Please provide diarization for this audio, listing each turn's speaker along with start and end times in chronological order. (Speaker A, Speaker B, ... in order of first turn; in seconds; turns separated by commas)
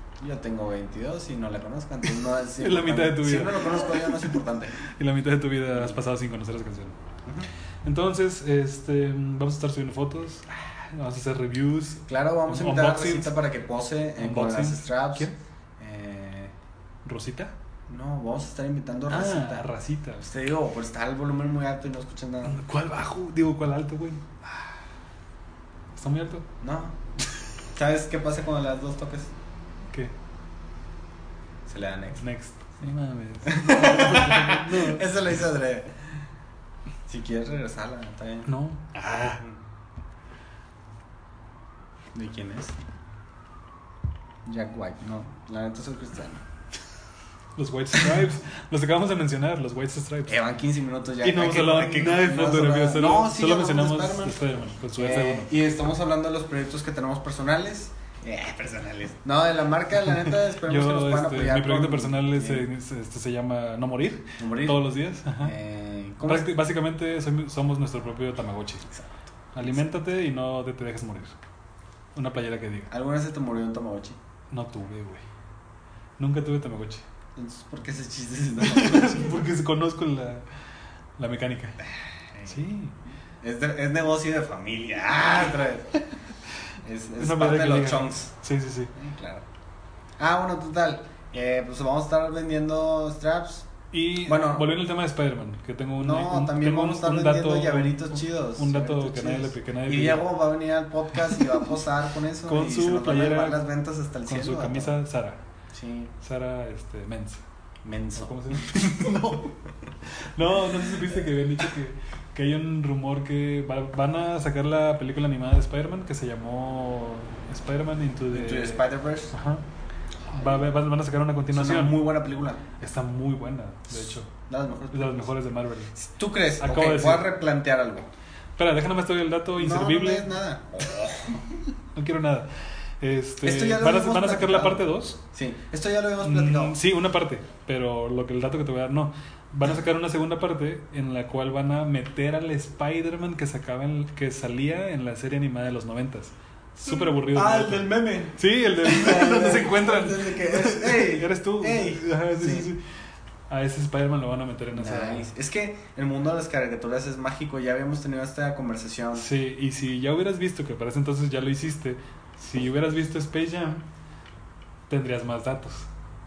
Speaker A: 0.2-4.8, Speaker B: 2.6-4.3, Speaker B: 4.8-7.0, Speaker B: 7.8-13.3, Speaker A: 12.1-16.5, Speaker B: 14.2-15.3, Speaker B: 17.1-17.5, Speaker A: 17.9-22.6, Speaker B: 19.1-20.3, Speaker B: 22.5-24.2, Speaker B: 25.9-26.5, Speaker A: 26.6-27.0, Speaker A: 27.8-29.3, Speaker A: 31.7-32.2, Speaker B: 32.2-35.1, Speaker A: 33.5-36.1, Speaker A: 37.1-38.5, Speaker B: 38.5-39.4, Speaker A: 39.2-39.6, Speaker A: 42.1-42.8, Speaker A: 44.5-46.4, Speaker B: 47.6-50.4, Speaker A: 50.3-54.5, Speaker B: 51.2-55.5, Speaker A: 55.0-62.7, Speaker B: 60.6-65.5, Speaker A: 64.4-66.5, Speaker B: 66.2-68.9, Speaker A: 68.9-69.8, Speaker B: 69.5-71.3, Speaker B: 72.2-72.9, Speaker A: 72.9-74.2, Speaker B: 74.5-75.2, Speaker B: 76.2-77.0, Speaker A: 77.4-79.4, Speaker B: 78.6-80.5, Speaker B: 81.2-81.8, Speaker A: 82.3-82.6, Speaker B: 82.5-83.0, Speaker A: 83.4-86.0, Speaker A: 86.8-88.3, Speaker B: 87.2-88.9, Speaker A: 88.9-89.5, Speaker A: 90.2-93.7, Speaker B: 93.9-100.3, Speaker A: 94.2-94.7, Speaker A: 96.0-105.0, Speaker B: 102.5-103.6, Speaker B: 104.3-105.4, Speaker A: 105.7-106.1, Speaker B: 106.2-107.4, Speaker A: 107.8-109.5, Speaker B: 108.2-119.6, Speaker A: 118.3-119.3, Speaker B: 120.3-122.0, Speaker A: 120.3-120.7, Speaker A: 121.5-122.6, Speaker B: 122.8-124.3, Speaker A: 124.5-125.3, Speaker B: 124.9-126.0, Speaker A: 126.0-128.1, Speaker B: 126.6-127.3, Speaker B: 128.6-130.3, Speaker A: 129.6-131.6, Speaker B: 131.9-135.2, Speaker A: 133.4-136.8, Speaker B: 136.2-152.8, Speaker A: 146.9-152.7, Speaker B: 153.5-155.3, Speaker A: 154.7-159.3, Speaker B: 159.2-163.9, Speaker B: 164.9-165.9